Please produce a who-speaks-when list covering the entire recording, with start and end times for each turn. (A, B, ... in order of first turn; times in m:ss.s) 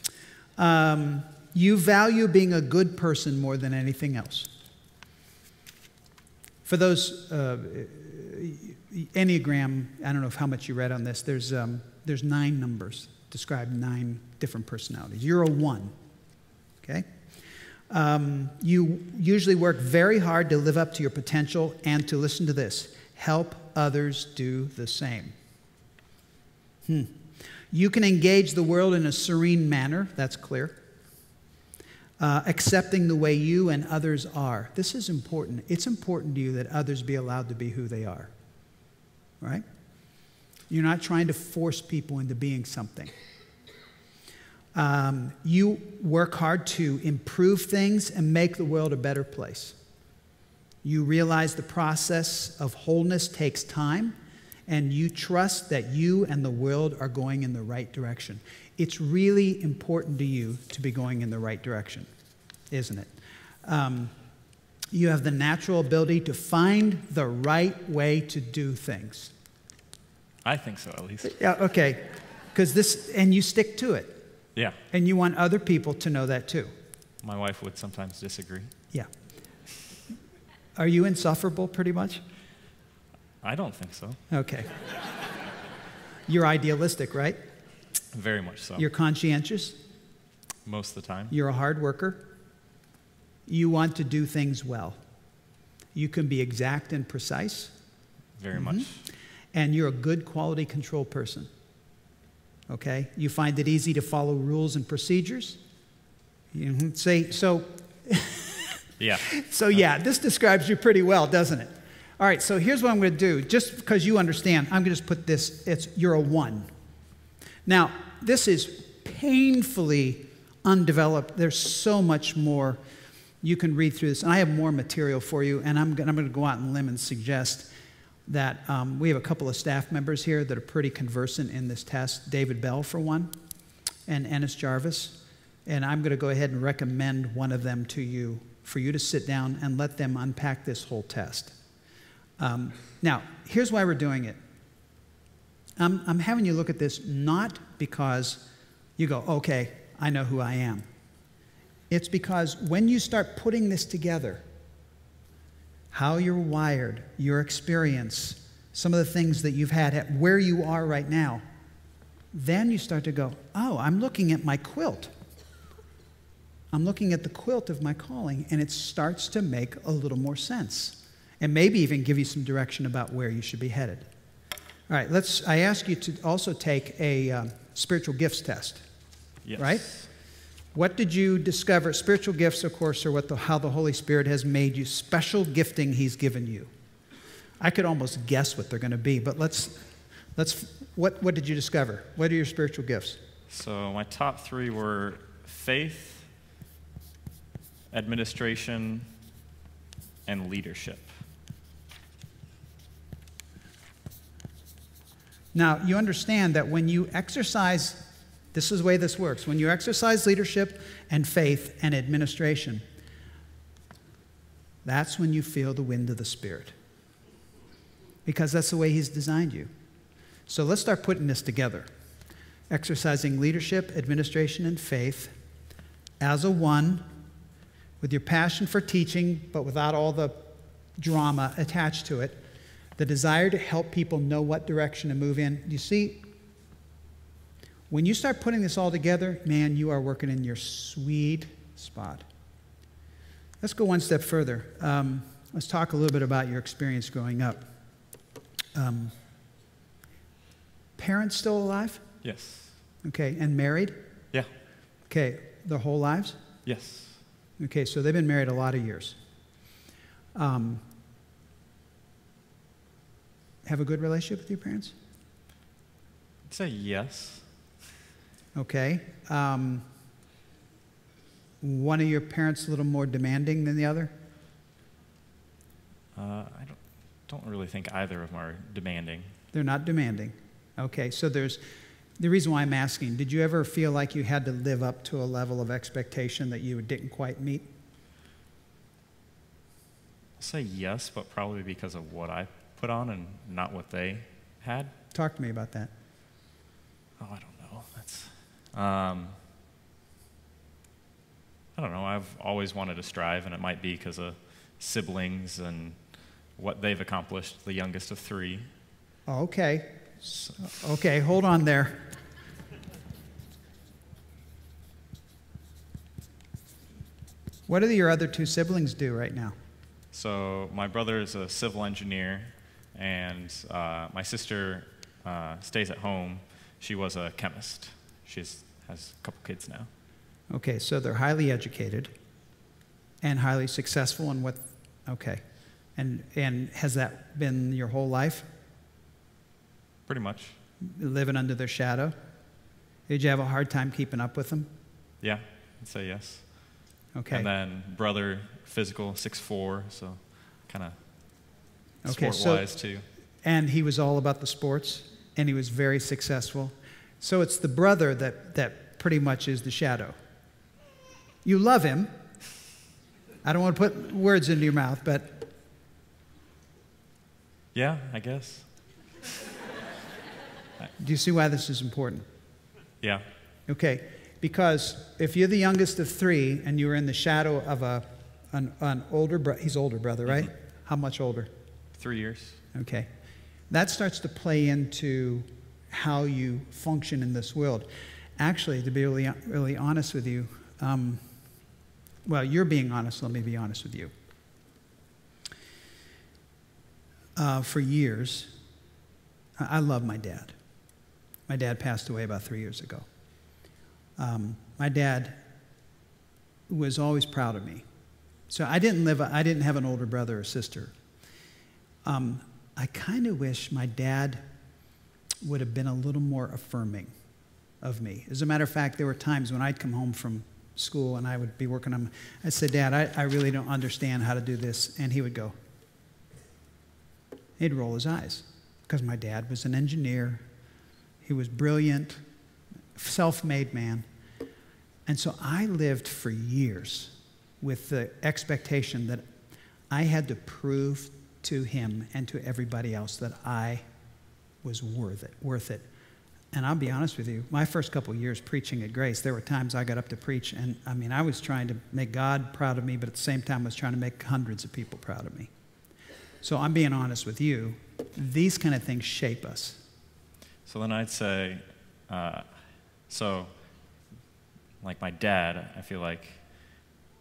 0:00.6-0:04.5 A
0:06.6-0:15.9 A
0:16.8-0:17.1 A
0:17.9-0:25.3 A
0:26.9-0:27.2 A
0:27.7-0:30.8 A
0:32.2-0:38.3 A
0:40.7-0:43.1 A
0:44.7-0:49.8 A
0:50.8-0:54.1 A
0:54.7-1:02.1 A
1:02.7-1:03.1 A
1:03.6-1:04.1 A
1:04.9-1:09.3 A
1:10.4-1:11.4 B
1:11.2-1:14.2 A
1:14.9-1:16.7 A
1:17.2-1:18.7 B
1:20.8-1:22.2 A
1:23.4-1:24.2 B
1:24.3-1:24.7 A
1:26.3-1:27.4 A
1:28.1-1:28.8 B
1:28.8-1:29.8 A
1:30.6-1:31.3 B
1:31.3-1:32.3 A
1:33.5-1:35.0 A
1:35.9-1:37.7 A
1:38.4-1:39.0 B
1:38.5-1:39.0 A
1:39.5-1:41.5 A
1:42.7-1:45.6 A
1:46.5-1:56.7 A
1:49.0-1:49.3 B
1:57.6-2:02.8 A
2:03.4-2:07.7 A
2:08.3-2:13.3 A
2:14.1-2:21.5 A
2:22.4-2:24.4 A
2:25.8-2:28.4 A
2:29.0-2:30.8 A
2:31.9-2:34.4 A
2:35.9-2:41.4 A
2:42.3-2:45.1 A
2:46.7-2:54.1 A
2:54.9-2:58.8 A
2:59.4-3:00.1 B
2:59.6-2:59.9 A
3:00.7-3:06.7 A
3:07.6-3:09.8 A
3:10.4-3:13.2 A
3:13.5-3:16.3 B
3:17.9-3:19.0 B
3:20.2-3:21.1 B
3:25.5-3:32.8 A
3:34.8-3:36.7 A
3:38.2-3:39.7 A
3:40.5-3:41.9 A
3:42.7-3:45.3 A
3:46.2-3:47.0 A
3:48.0-3:52.4 A
3:53.0-3:56.2 A
3:57.9-4:02.2 A
4:03.6-4:07.6 A
4:08.7-4:09.1 A
4:11.0-4:12.0 A
4:12.2-4:12.7 B
4:13.0-4:14.0 A
4:15.1-4:16.4 A
4:16.6-4:17.2 B
4:17.6-4:19.2 A
4:20.3-4:20.8 A
4:23.6-4:24.9 A
4:26.5-4:27.4 B
4:28.5-4:29.8 A
4:31.6-4:34.1 A
4:36.1-4:39.3 B
4:39.5-4:41.6 A
4:42.2-4:47.7 A
4:50.4-4:54.9 B
4:55.1-4:55.9 A
4:57.2-4:59.4 B
5:01.7-5:06.0 B
5:06.6-5:08.6 B
5:09.3-5:12.1 A
5:17.7-5:19.5 A
5:20.1-5:29.9 B
5:30.5-5:32.1 A
5:33.2-5:35.4 A
5:36.0-5:38.4 A
5:40.1-5:40.6 B
5:40.8-5:42.1 A
5:43.1-5:44.7 A
5:45.2-5:46.5 B
5:47.1-5:47.5 A
5:47.3-5:51.0 B
5:52.0-5:52.7 A
5:52.0-5:53.0 B
5:53.4-6:00.1 A
6:01.4-6:02.1 A
6:03.4-6:05.5 A
6:07.7-6:08.6 B
6:11.0-6:12.2 A
6:13.7-6:21.5 A
6:22.0-6:22.6 B
6:22.7-6:23.1 A
6:23.7-6:31.2 A
6:32.2-6:34.1 A
6:37.4-6:38.5 A
6:39.6-6:40.5 A
6:41.5-6:43.0 A
6:44.2-6:45.4 A
6:46.7-6:47.8 A
6:48.5-6:50.9 A
6:52.0-6:54.4 A
6:55.4-6:57.1 A
6:57.8-7:05.5 A
7:07.6-7:10.4 A
7:11.2-7:12.2 A
7:13.0-7:14.0 A
7:15.1-7:19.2 A
7:19.9-7:23.8 A
7:24.6-7:25.8 A
7:26.5-7:35.5 A
7:36.4-7:39.8 A
7:40.6-7:42.5 B
7:43.1-7:43.5 B
7:44.8-7:46.4 B